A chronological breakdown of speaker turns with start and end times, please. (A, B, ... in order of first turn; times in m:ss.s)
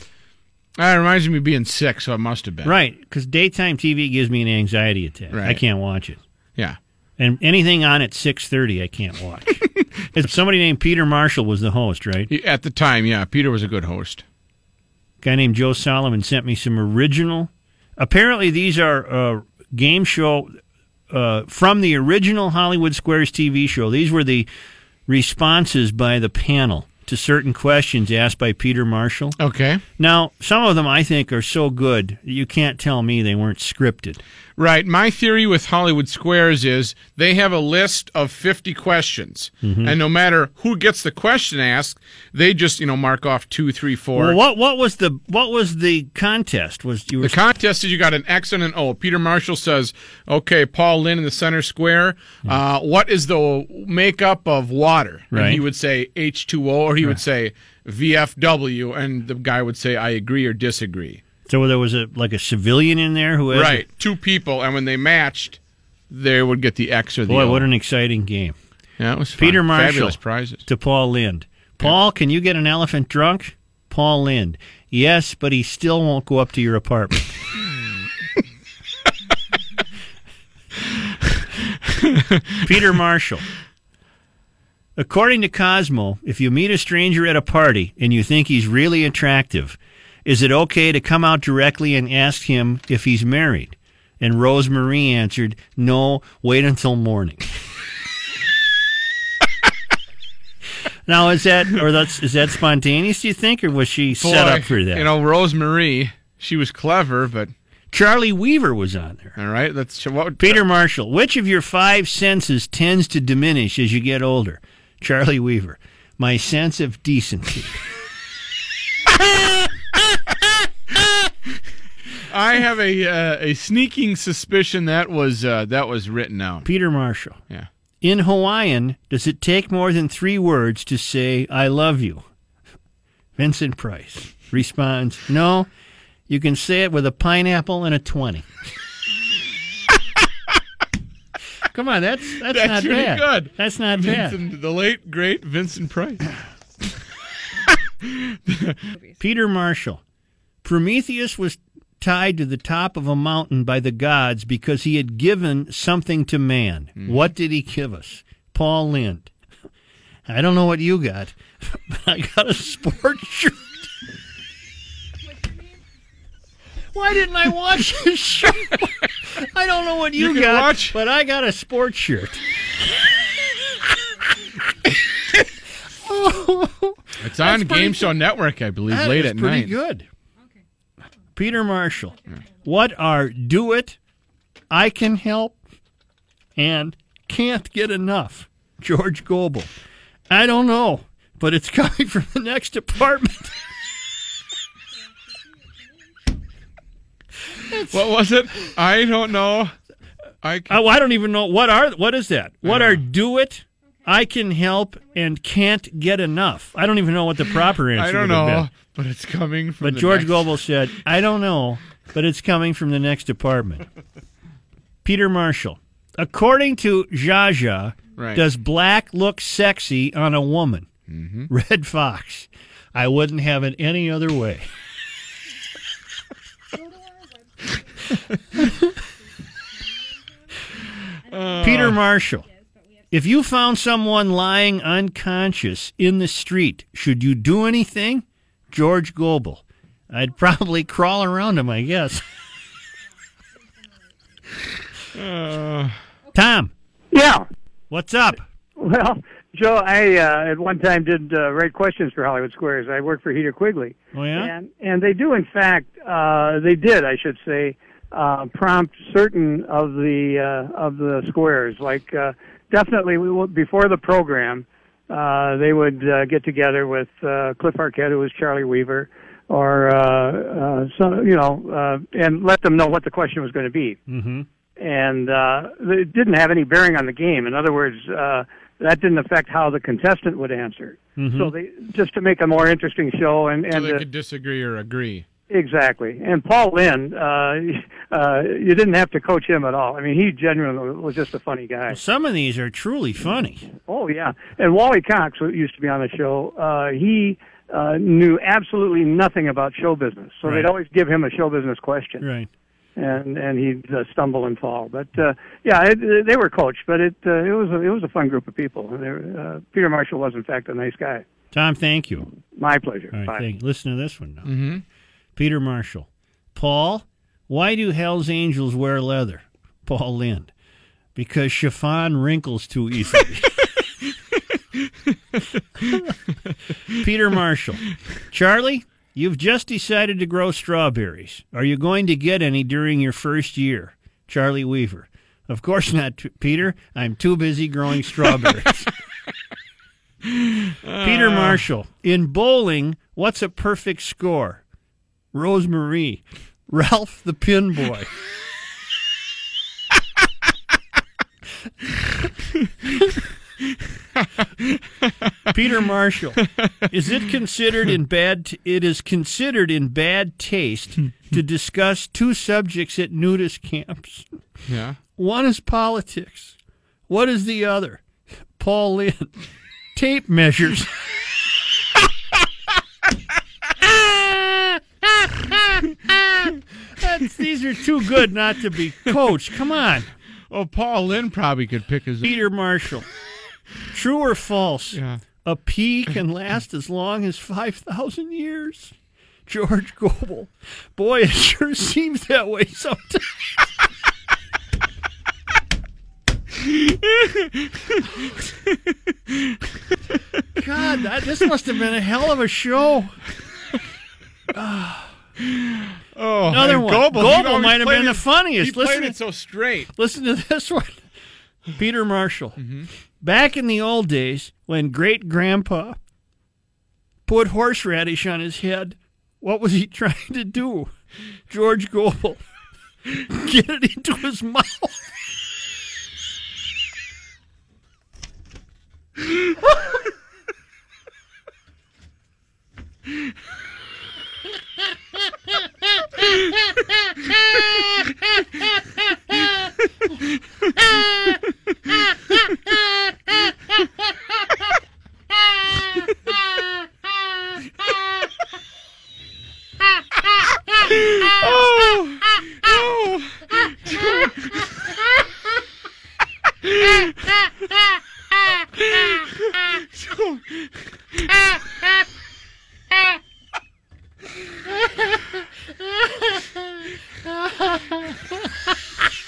0:00.8-0:02.8 A
0:02.6-0:06.2 B
0:05.3-0:05.6 A
0:07.2-0:12.3 B
0:12.3-0:14.2 A
0:15.2-0:20.5 B
0:21.1-0:24.5 B
0:25.1-0:29.4 B
0:29.4-0:29.8 A
0:30.0-0:34.2 B
0:34.6-0:44.4 A
0:39.6-0:40.0 B
0:44.2-0:47.4 B
0:47.2-1:01.2 A
0:55.3-0:55.6 B
1:01.5-1:03.9 B
1:03.5-1:05.6 A
1:06.1-1:07.7 A
1:07.3-1:08.6 B
1:09.0-1:10.6 A
1:09.4-1:17.3 B
1:22.6-1:23.5 B
1:25.0-1:37.5 B
1:41.1-1:45.1 B
1:44.2-1:47.5 A
1:47.9-1:49.4 B
1:49.4-1:50.6 A
1:50.4-1:57.8 B
2:02.3-2:06.7 A
2:06.6-2:07.4 B
2:08.0-2:12.2 B
2:13.4-2:15.7 B
2:16.3-2:18.5 B
2:21.7-2:24.4 B
2:22.5-2:26.3 A
2:28.5-2:28.8 A
2:29.2-2:30.0 B
2:30.6-2:39.3 B
2:37.0-2:37.3 A
2:40.3-2:43.6 B
2:46.9-2:52.4 B
2:50.2-2:51.0 A
2:56.0-2:58.1 B
2:57.2-2:59.8 A
2:58.9-3:00.1 B
3:01.4-3:04.0 B
3:04.7-3:05.6 B
3:06.6-3:09.7 B
3:10.3-3:13.5 B
3:17.7-3:17.9 B
3:17.9-3:19.8 A
3:20.4-3:20.8 A
3:20.7-3:28.7 B
3:22.6-3:23.0 A
3:27.9-3:30.5 A
3:29.8-3:33.9 B
3:35.0-3:40.9 B
3:38.2-3:38.4 A
3:41.1-3:41.5 A
3:41.5-3:44.7 B
3:51.3-3:52.0 A
3:51.6-3:52.5 B
3:53.1-4:02.2 B
4:05.2-4:06.0 A
4:06.3-4:06.7 B
4:07.1-4:07.4 C
4:07.9-4:08.4 B
4:08.8-4:34.0 C
4:14.1-4:14.5 B
4:34.1-4:34.5 B
4:34.8-4:44.0 C
4:41.2-4:41.5 B
4:43.7-4:45.2 A
4:45.5-4:52.0 C
4:51.9-4:53.7 B
4:53.9-5:02.2 C
5:02.2-5:02.5 B
5:03.0-5:11.2 C
5:11.5-5:12.3 B
5:12.6-5:13.4 C
5:13.1-5:14.5 B
5:14.4-5:14.8 A
5:15.4-5:20.5 B
5:21.2-5:23.6 B
5:26.9-5:38.9 B
5:40.8-5:41.6 A
5:41.0-5:44.6 B
5:45.3-5:48.1 B
5:55.5-6:04.3 B
5:56.4-5:56.7 A
6:04.7-6:05.0 A
6:05.2-6:06.6 B
6:07.1-6:08.0 B
6:08.6-6:09.3 B
6:10.0-6:10.9 B
6:14.0-6:14.8 B
6:16.1-6:20.1 B
6:20.5-6:22.3 A
6:22.2-6:23.1 B
6:23.9-6:28.9 B
6:24.9-6:25.2 A
6:29.5-6:33.5 B
6:40.6-6:43.2 B
6:44.5-6:45.1 B
6:46.2-6:49.9 A
6:46.5-6:49.2 B
6:49.9-6:51.0 B
6:51.8-6:52.6 B
6:52.6-6:52.9 A
6:53.2-6:56.0 B
6:57.3-7:00.9 B
7:01.5-7:02.4 B
7:03.1-7:05.0 B
7:30.8-7:34.7 A
7:39.0-7:40.6 A
7:47.2-7:48.4 B